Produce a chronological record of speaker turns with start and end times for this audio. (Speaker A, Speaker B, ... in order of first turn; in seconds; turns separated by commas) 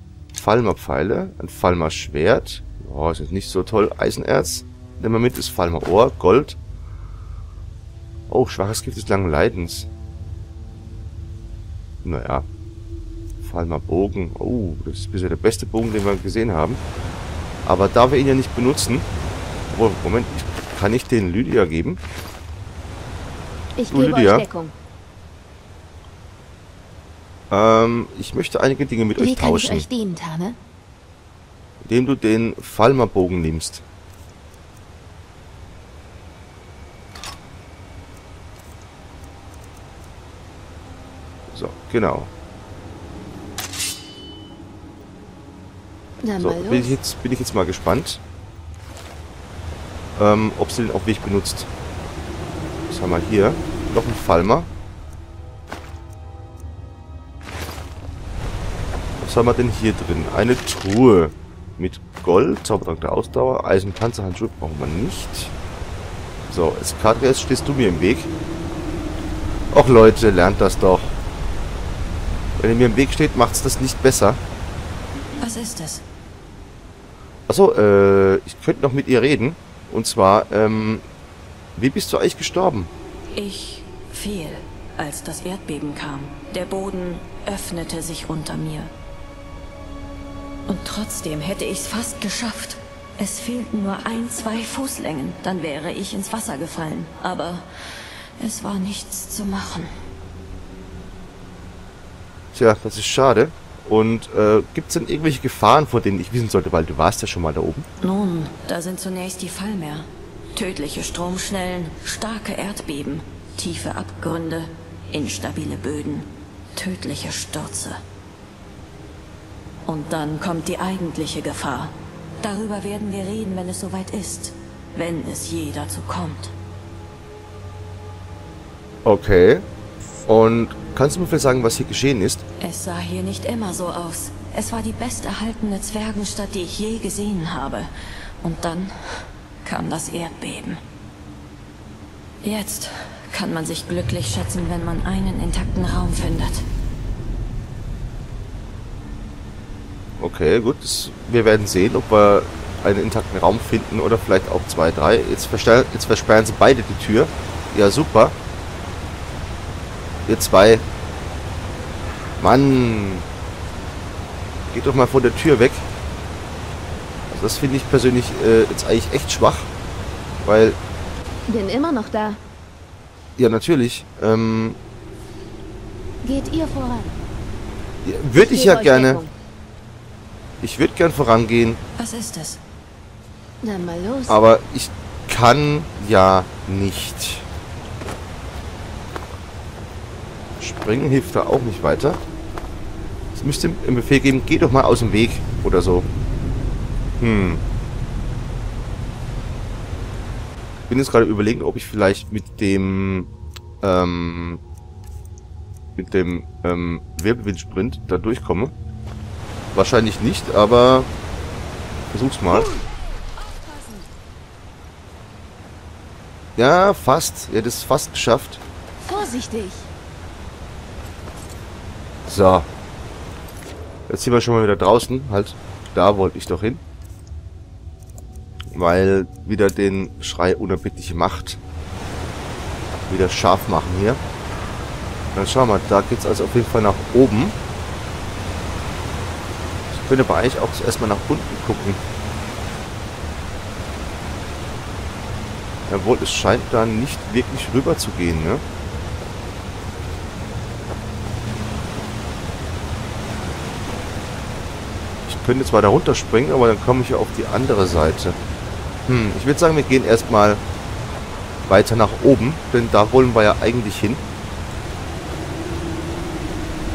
Speaker A: 0.3-6.6, Speaker A: 8.3-9.9, Speaker A: 12.0-12.5, Speaker A: 13.4-16.8, Speaker A: 17.6-19.1, Speaker A: 19.7-22.0, Speaker B: 23.8-24.7, Speaker A: 23.9-24.5, Speaker A: 27.5-29.9, Speaker B: 29.2-30.6, Speaker A: 31.8-33.8, Speaker A: 41.5-42.3, Speaker B: 46.2-47.0, Speaker A: 46.4-48.2, Speaker A: 50.2-51.7, Speaker A: 52.9-54.7, Speaker A: 59.2-65.5, Speaker A: 66.5-68.3, Speaker A: 69.7-71.2, Speaker A: 72.6-74.4, Speaker C: 75.4-76.0, Speaker A: 77.5-81.0, Speaker A: 81.8-82.9, Speaker C: 83.3-88.9, Speaker C: 90.7-99.9, Speaker A: 102.5-107.9, Speaker C: 108.0-118.0, Speaker C: 119.8-126.5, Speaker A: 129.0-129.7, Speaker A: 130.2-132.4, Speaker C: 132.6-137.9, Speaker C: 138.4-140.8, Speaker C: 142.4-146.7, Speaker A: 150.2-158.3, Speaker A: 160.3-160.8, Speaker A: 162.4-163.3, Speaker A: 164.7-165.9, Speaker A: 167.3-169.7, Speaker A: 170.4-170.8, Speaker B: 171.5-172.4, Speaker A: 173.4-174.8, Speaker B: 176.2-177.2, Speaker A: 178.0-179.2, Speaker B: 178.3-179.3, Speaker A: 180.6-181.8, Speaker C: 182.0-182.6, Speaker B: 183.6-184.4, Speaker A: 184.3-187.5, Speaker A: 190.6-192.2, Speaker A: 193.3-196.1, Speaker A: 197.2-197.6, Speaker A: 200.9-203.3, Speaker A: 203.8-204.6, Speaker A: 206.0-208.7, Speaker A: 209.7-211.1, Speaker A: 212.1-212.7, Speaker C: 213.4-214.1, Speaker A: 216.6-218.6, Speaker B: 219.0-219.9, Speaker A: 222.2-222.7, Speaker A: 224.1-226.8, Speaker A: 228.7-231.6, Speaker A: 233.1-234.2, Speaker A: 235.3-237.6, Speaker A: 239.9-242.0, Speaker A: 245.9-248.6, Speaker A: 255.3-258.4, Speaker A: 259.1-260.6, Speaker A: 261.7-264.2